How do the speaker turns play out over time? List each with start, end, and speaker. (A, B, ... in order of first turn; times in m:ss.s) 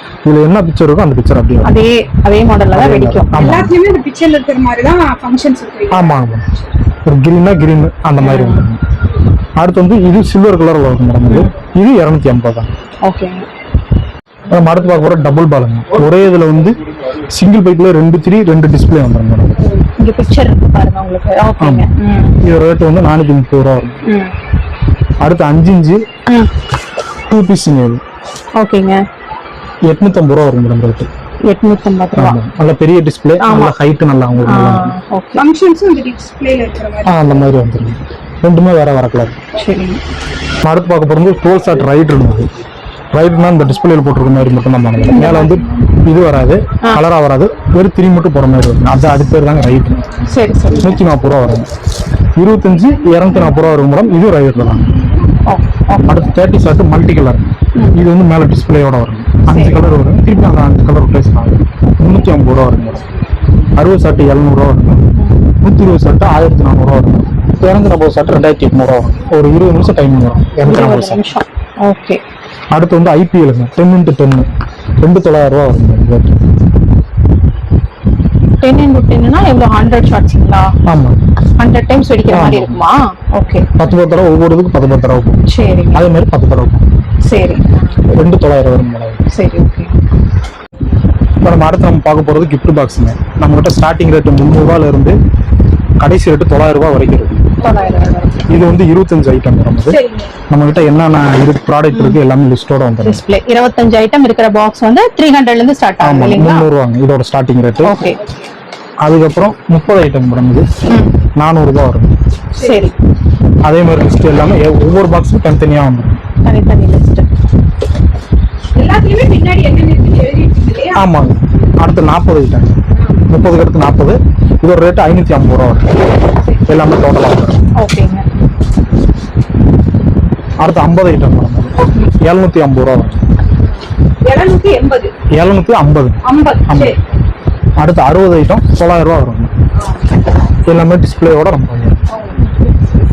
0:00.2-0:01.7 A
0:01.6-0:03.5 B
0:02.7-0:03.7 A
0:03.4-0:06.2 C
0:05.9-0:06.4 A
0:07.0-0:08.8 A
0:08.2-0:08.7 B
0:09.6-0:12.7 A
0:13.0-0:13.4 B
0:14.5-0:19.7 A
0:20.0-0:22.4 B
0:21.6-0:21.9 A
0:22.4-0:24.0 A
0:24.0-0:24.3 B
0:25.2-0:26.0 A
0:27.3-0:28.0 A
0:28.6-0:29.0 B
0:29.9-0:31.1 A
0:31.5-0:32.4 B
0:32.2-0:34.9 A
0:33.4-0:33.7 B
0:34.4-0:35.4 B
0:35.4-0:37.5 C
0:37.0-0:39.4 A
0:39.5-0:40.0 B
0:40.6-0:42.5 A
0:43.1-0:50.2 A
0:45.1-0:45.5 B
0:45.2-0:46.0 C
0:50.3-0:51.0 B
0:50.7-0:51.7 A
0:52.4-0:55.0 A
0:55.4-0:56.3 B
0:56.0-1:03.0 A
0:59.5-0:59.9 B
1:03.7-1:05.0 A
1:05.1-1:05.5 B
1:05.6-1:11.2 A
1:10.6-1:12.2 B
1:12.7-1:14.5 A
1:15.0-1:16.4 A
1:18.6-1:20.7 B
1:20.9-1:21.2 A
1:21.6-1:23.7 B
1:22.3-1:22.8 A
1:23.8-1:25.4 A
1:25.4-1:26.0 B
1:25.9-1:26.8 A
1:27.2-1:28.0 B
1:28.1-1:29.2 A
1:29.3-1:30.0 B
1:31.4-1:35.2 A
1:36.0-1:37.4 A
1:37.6-1:38.3 C
1:37.6-1:38.7 B
1:38.5-1:43.2 A
1:39.9-1:40.4 C
1:41.9-1:42.2 B
1:43.0-1:46.7 B
1:46.0-1:48.0 A
1:47.8-1:48.2 B
1:49.0-1:50.7 A
1:50.8-1:51.1 B
1:51.4-1:52.1 A
1:52.5-1:52.9 C
1:52.6-1:53.0 B
1:53.6-1:56.2 A
1:56.4-1:57.3 B
1:58.7-2:01.0 C
2:01.0-2:02.8 A
2:03.0-2:03.3 C
2:03.3-2:05.9 A
2:06.4-2:06.8 C
2:06.7-2:07.6 A
2:07.8-2:08.2 B
2:10.6-2:13.2 A
2:14.2-2:15.1 C
2:15.3-2:16.9 A
2:16.2-2:17.0 C
2:17.8-2:19.5 A
2:19.8-2:20.1 C
2:20.7-2:22.0 A
2:22.1-2:22.5 C
2:22.4-2:22.8 B